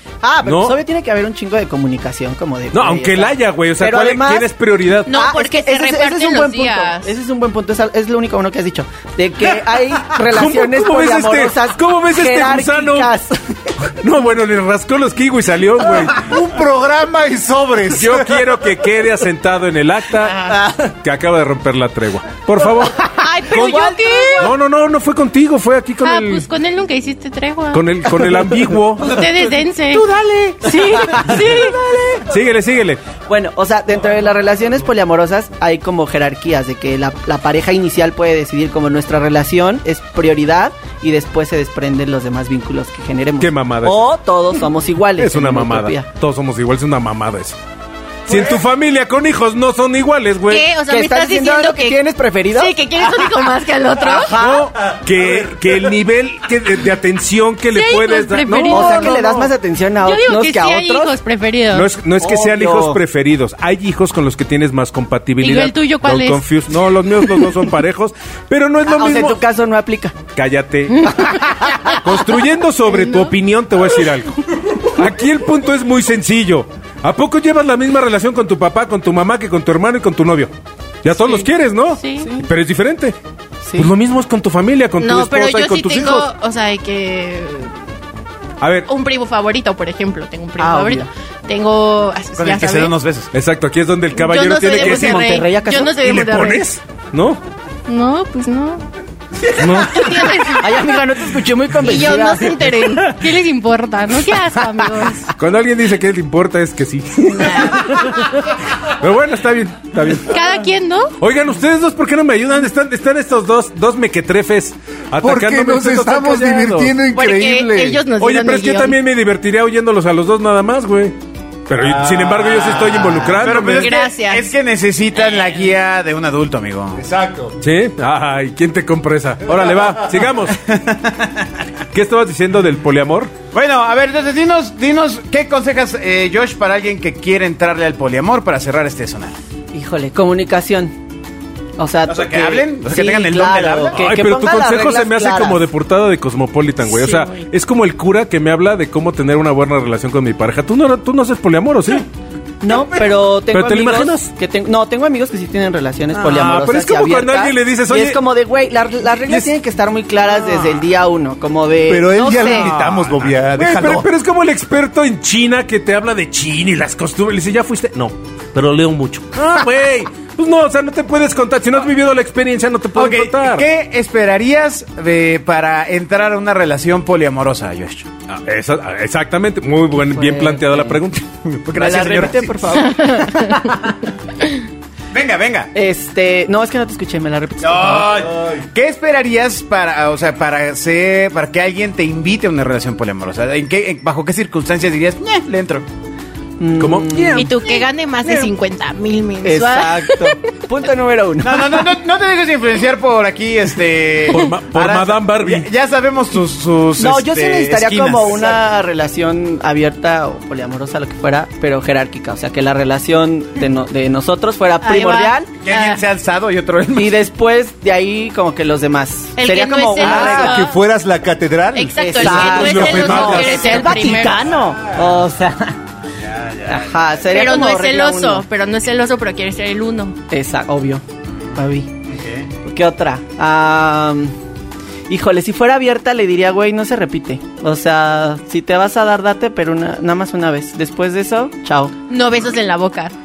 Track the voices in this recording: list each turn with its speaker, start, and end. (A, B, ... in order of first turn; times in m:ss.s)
0:00.2-0:04.5 A
0:00.4-0:00.8 B
0:02.7-0:05.1 B
0:05.1-0:07.1 C
0:05.1-0:13.9 A
0:10.0-0:13.1 B
0:13.8-0:16.3 B
0:15.9-0:18.5 D
0:17.9-0:26.5 B
0:20.5-0:20.8 A
0:23.0-0:24.5 A
0:23.1-0:24.5 C
0:26.0-0:27.8 C
0:27.7-0:29.2 B
0:29.0-0:30.1 C
0:29.9-0:32.2 A
0:30.6-0:31.8 C
0:31.4-0:31.7 B
0:32.2-0:33.0 B
0:33.3-0:46.1 A
0:43.4-0:44.1 B
0:45.2-0:47.6 B
0:48.3-0:50.7 B
0:50.5-0:54.4 C
0:50.9-0:52.8 A
0:54.0-0:54.7 A
0:54.4-0:59.5 B
0:57.7-0:59.3 C
0:58.5-1:01.2 A
1:00.0-1:01.9 C
1:01.7-1:09.4 B
1:02.2-1:03.0 A
1:05.4-1:06.5 C
1:08.8-1:10.2 A
1:10.4-1:11.1 B
1:10.9-1:12.0 C
1:11.3-1:11.8 A
1:12.0-1:20.5 B
1:12.9-1:13.3 C
1:21.0-1:23.2 B
1:22.0-1:22.3 C
1:22.2-1:22.5 A
1:23.6-1:23.9 A
1:23.8-1:26.3 B
1:25.0-1:27.7 C
1:28.6-1:28.9 B
1:28.9-1:33.0 C
1:30.6-1:31.1 A
1:32.4-1:33.3 E
1:33.3-1:35.4 B
1:34.1-1:36.7 C
1:34.7-1:36.0 A
1:36.0-1:37.4 B
1:37.9-1:38.8 C
1:39.5-1:40.5 B
1:39.5-1:40.9 C
1:40.6-1:43.1 A
1:41.8-1:45.3 C
1:45.4-1:50.5 B
1:47.4-1:47.8 C
1:50.2-1:51.1 C
1:51.2-1:57.0 B
1:55.2-1:58.0 D
1:57.1-1:59.0 C
1:58.2-2:01.1 B
2:01.7-2:03.9 B
2:02.2-2:02.5 D
2:02.7-2:07.0 E
2:03.8-2:04.5 C
2:05.2-2:05.6 C
2:07.0-2:07.6 D
2:07.6-2:10.6 B
2:10.5-2:11.5 E
2:11.9-2:13.3 B
2:13.5-2:19.4 E
2:19.7-2:21.0 A
2:21.8-2:25.6 A
2:22.1-2:24.0 E
2:24.0-2:32.1 B
2:26.9-2:27.4 C
2:32.6-2:42.6 A
2:33.5-2:34.3 B
2:36.1-2:38.2 B
2:41.9-2:44.1 D
2:42.2-2:42.7 C
2:42.3-2:53.7 B
2:53.0-2:58.1 E
2:58.3-3:01.5 B
3:00.1-3:01.0 A
3:01.5-3:02.8 E
3:01.7-3:03.8 A
3:03.0-3:03.6 C
3:05.1-3:05.7 E
3:05.7-3:08.3 A
3:07.6-3:15.9 E
3:16.6-3:18.5 A
3:16.8-3:17.5 B
3:17.3-3:20.5 C
3:19.4-3:21.9 A
3:21.4-3:28.6 E
3:24.3-3:25.7 B
3:27.0-3:35.5 A
3:34.8-3:36.0 C
3:35.6-3:37.2 E
3:37.0-3:40.7 A
3:39.4-3:40.8 C
3:40.0-3:42.0 D
3:41.8-3:44.5 C
3:42.0-3:45.8 A
3:42.2-3:44.2 B
3:46.2-3:46.8 E
3:46.6-3:48.5 A
3:47.3-3:50.2 C
3:50.3-3:51.0 A
3:51.5-3:51.9 A
3:52.1-3:52.5 E
3:52.6-3:54.3 A
3:55.1-4:01.9 A
4:02.1-4:03.1 C